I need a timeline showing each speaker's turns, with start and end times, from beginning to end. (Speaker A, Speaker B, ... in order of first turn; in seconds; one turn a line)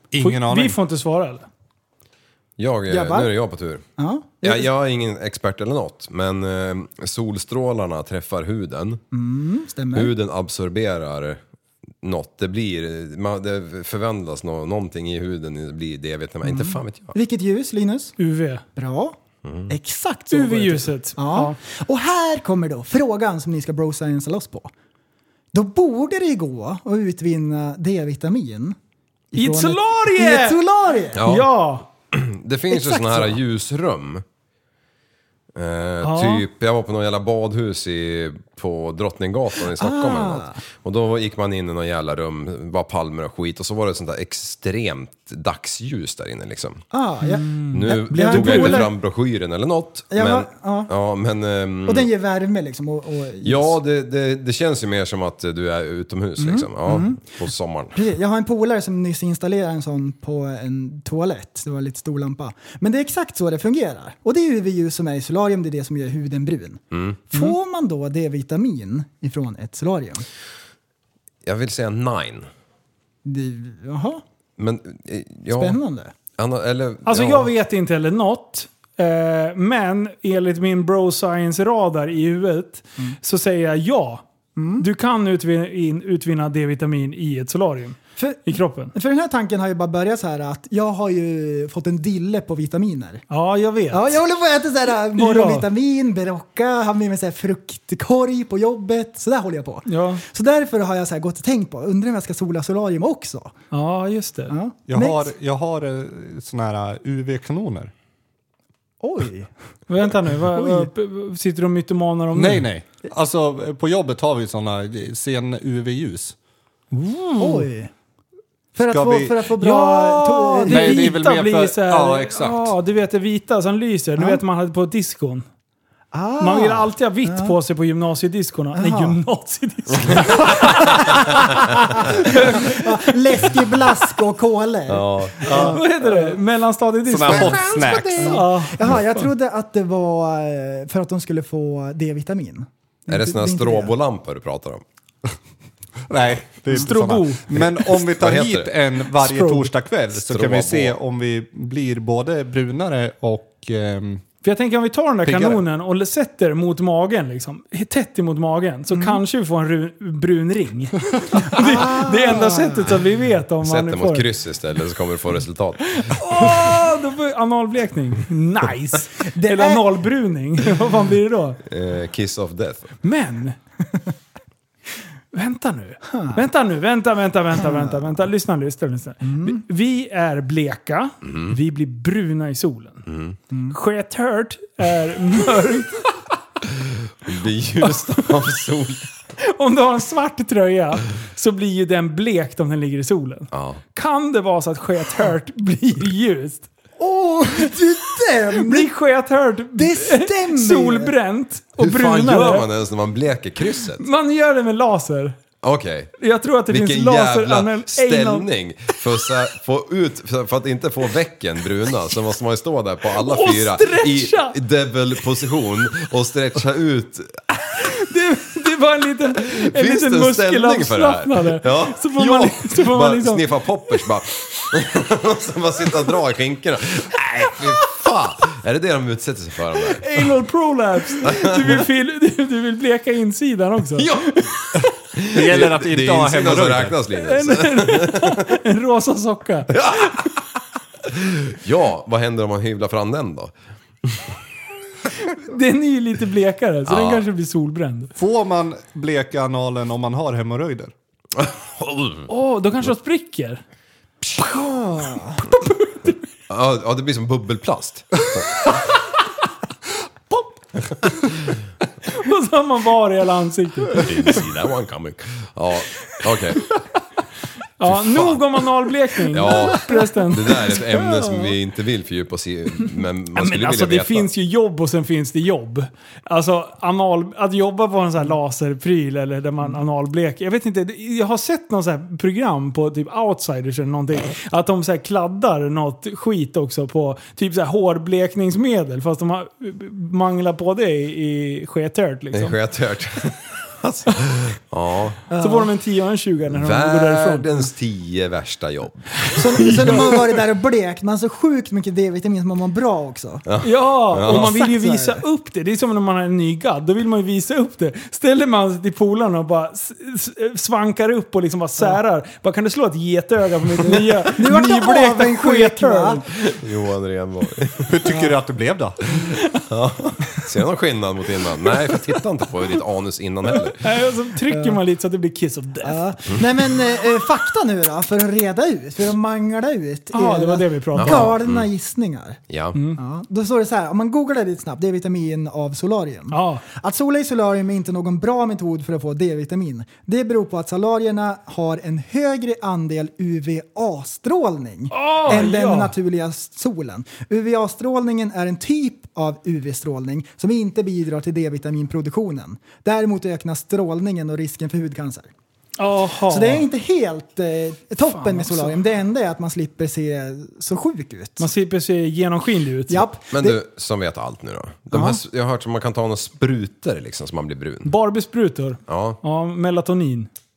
Speaker A: 0.1-0.8
Speaker B: 0.2-1.5
Speaker C: 2.6-3.8
Speaker D: 2.9-3.3
Speaker D: 4.0-4.7
Speaker C: 4.4-9.0
Speaker D: 9.1-10.1
Speaker C: 9.9-11.4
Speaker C: 12.0-17.1
Speaker D: 16.4-18.2
Speaker B: 18.2-18.6
Speaker D: 18.8-19.2
Speaker C: 19.4-19.7
Speaker D: 19.7-24.7
Speaker B: 20.3-21.6
Speaker D: 25.5-28.8
Speaker D: 29.3-31.3
Speaker B: 29.4-30.6
Speaker C: 31.1-31.5
Speaker B: 31.2-31.9
Speaker C: 32.1-34.2
Speaker D: 32.7-33.4
Speaker C: 35.5-46.8
Speaker B: 36.0-36.5
Speaker D: 39.7-40.6
Speaker D: 46.9-48.9
Speaker B: 47.2-48.9
Speaker C: 47.7-52.1
Speaker D: 50.1-50.9
Speaker D: 51.9-53.8
Speaker C: 53.4-58.0
Speaker D: 56.4-57.3
Speaker D: 58.0-70.3
Speaker C: 66.9-67.2
Speaker C: 71.4-72.5
Speaker D: 73.2-74.2
Speaker C: 74.6-75.8
Speaker D: 75.5-76.1
Speaker C: 76.4-77.5
Speaker B: 77.1-84.2
Speaker D: 84.6-84.9
Speaker B: 84.8-88.9
Speaker D: 88.2-93.2
Speaker B: 93.3-94.2
Speaker D: 93.9-103.5
Speaker B: 95.2-95.7
Speaker B: 99.9-100.2
Speaker B: 103.7-104.5
Speaker D: 104.5-105.3
Speaker A: 104.9-107.9
Speaker D: 109.0-109.5
Speaker B: 109.9-112.7
Speaker D: 110.5-110.9
Speaker A: 112.3-116.4
Speaker B: 116.9-117.7
Speaker D: 117.4-117.9
Speaker D: 118.7-121.1
Speaker A: 118.9-119.4
Speaker B: 119.6-125.5
Speaker A: 120.7-122.7
Speaker D: 124.2-124.4
Speaker D: 126.1-127.5
Speaker B: 126.4-131.2
Speaker D: 128.7-129.2
Speaker D: 130.3-136.4
Speaker B: 132.1-133.5
Speaker C: 134.9-135.5
Speaker B: 135.5-139.3
Speaker A: 135.5-135.8
Speaker A: 137.1-138.4
Speaker D: 137.3-143.9
Speaker C: 143.1-144.8
Speaker A: 146.1-154.2
Speaker B: 146.7-147.5
Speaker C: 147.6-148.8
Speaker B: 149.2-149.7
Speaker C: 150.1-151.0
Speaker B: 154.4-164.3
Speaker A: 155.2-155.7
Speaker D: 158.9-159.2
Speaker D: 161.4-163.0
Speaker C: 163.6-166.1
Speaker B: 165.9-171.6
Speaker D: 169.3-169.8
Speaker C: 171.7-172.9
Speaker B: 173.0-173.6
Speaker B: 175.3-183.1
Speaker D: 176.1-176.4
Speaker D: 177.6-178.0
Speaker D: 179.2-179.6
Speaker C: 181.2-181.6
Speaker C: 183.1-183.4
Speaker D: 183.5-183.8
Speaker B: 183.7-186.1
Speaker C: 186.7-189.1
Speaker B: 187.8-188.4
Speaker B: 189.4-196.7
Speaker C: 193.5-193.8
Speaker D: 197.0-198.9
Speaker B: 198.6-202.7
Speaker D: 199.8-201.1
Speaker C: 201.8-204.1
Speaker B: 204.0-205.4
Speaker C: 205.6-206.1
Speaker B: 206.2-208.5
Speaker C: 206.7-217.8
Speaker B: 213.2-214.6
Speaker B: 217.9-223.5
Speaker C: 219.4-230.0
Speaker B: 229.9-234.5
Speaker C: 231.2-231.8
Speaker C: 234.0-234.6
Speaker C: 235.1-238.4
Speaker A: 235.3-237.0
Speaker B: 237.2-239.8
Speaker C: 239.7-240.4
Speaker C: 241.0-243.5
Speaker C: 244.1-244.3
Speaker B: 245.2-248.1
Speaker C: 246.9-247.3
Speaker A: 248.2-250.9
Speaker C: 251.4-252.3
Speaker B: 252.3-253.6
Speaker D: 254.3-255.4
Speaker B: 255.7-256.1
Speaker C: 256.5-258.5
Speaker B: 262.1-264.1
Speaker C: 264.0-266.7
Speaker B: 267.8-270.7
Speaker C: 267.8-268.7
Speaker C: 269.3-274.3
Speaker D: 271.1-271.5
Speaker B: 273.4-292.6
Speaker C: 292.3-295.2
Speaker D: 295.3-295.7
Speaker B: 295.4-297.5
Speaker C: 296.5-300.1
Speaker D: 299.4-303.4
Speaker C: 303.5-304.5
Speaker B: 303.6-316.2
Speaker D: 304.2-305.2
Speaker D: 313.8-316.2
Speaker C: 316.4-317.9
Speaker A: 317.9-319.0
Speaker D: 318.1-318.3
Speaker C: 319.7-323.8
Speaker B: 323.5-326.0
Speaker D: 324.5-324.8
Speaker D: 325.8-332.4
Speaker B: 330.1-331.3
Speaker C: 330.9-331.7
Speaker C: 332.5-332.8
Speaker B: 332.7-333.0
Speaker D: 333.0-355.3
Speaker B: 336.3-336.6
Speaker B: 344.9-345.9
Speaker B: 355.8-356.7
Speaker D: 356.3-361.5
Speaker B: 358.0-358.8
Speaker B: 361.4-363.1
Speaker D: 362.9-363.6
Speaker C: 363.3-367.9
Speaker D: 364.9-365.2
Speaker B: 367.8-370.3
Speaker C: 368.9-369.2